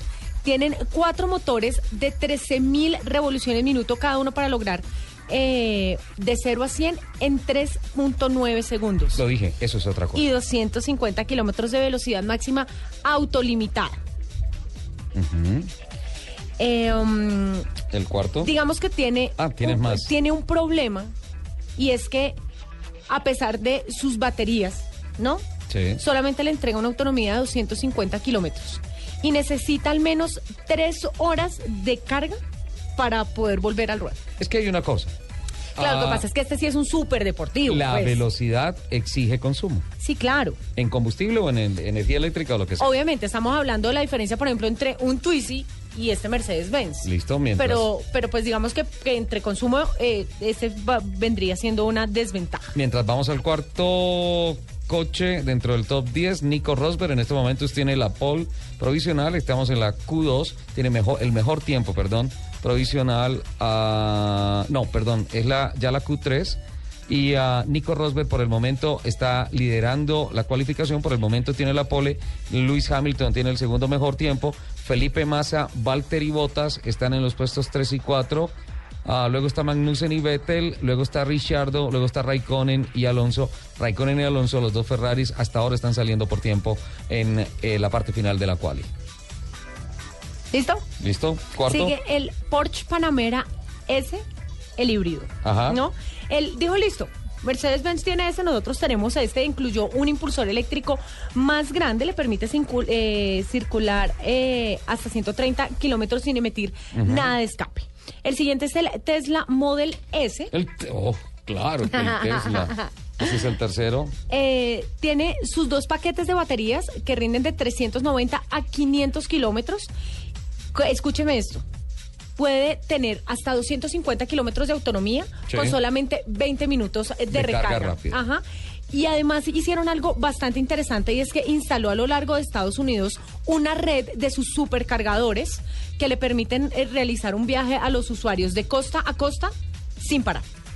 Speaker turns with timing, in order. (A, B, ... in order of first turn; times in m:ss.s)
0:00.4-0:09.2 A
0:09.2-0:10.3 B
0:10.1-0:14.0 A
0:15.1-0:15.7 B
0:16.6-0:17.7 A
0:17.9-0:18.5 B
0:18.4-0:21.1 A
0:19.4-0:20.1 B
0:21.8-0:22.3 A
0:23.1-0:25.4 A
0:25.7-0:26.0 B
0:26.0-0:32.4 A
0:33.0-0:34.2 A
0:34.4-0:35.1 B
0:35.8-0:36.2 B
0:35.8-0:38.2 A
0:37.6-0:39.8 B
0:40.0-0:40.6 A
0:40.8-0:42.9 B
0:42.8-0:52.7 A
0:47.0-0:47.9 B
0:52.7-1:18.5 B
1:19.0-1:28.9 B
1:30.5-1:30.8 A
1:31.0-1:31.9 B
1:31.7-1:34.2 A
1:34.8-1:50.5 A
1:35.4-1:35.8 B
1:46.9-1:47.3 B
1:50.5-1:54.1 B
1:51.8-1:52.9 A
1:54.3-1:59.9 A
2:00.7-2:01.6 A
2:02.4-2:20.4 A
2:05.5-2:05.8 B
2:07.3-2:08.2 B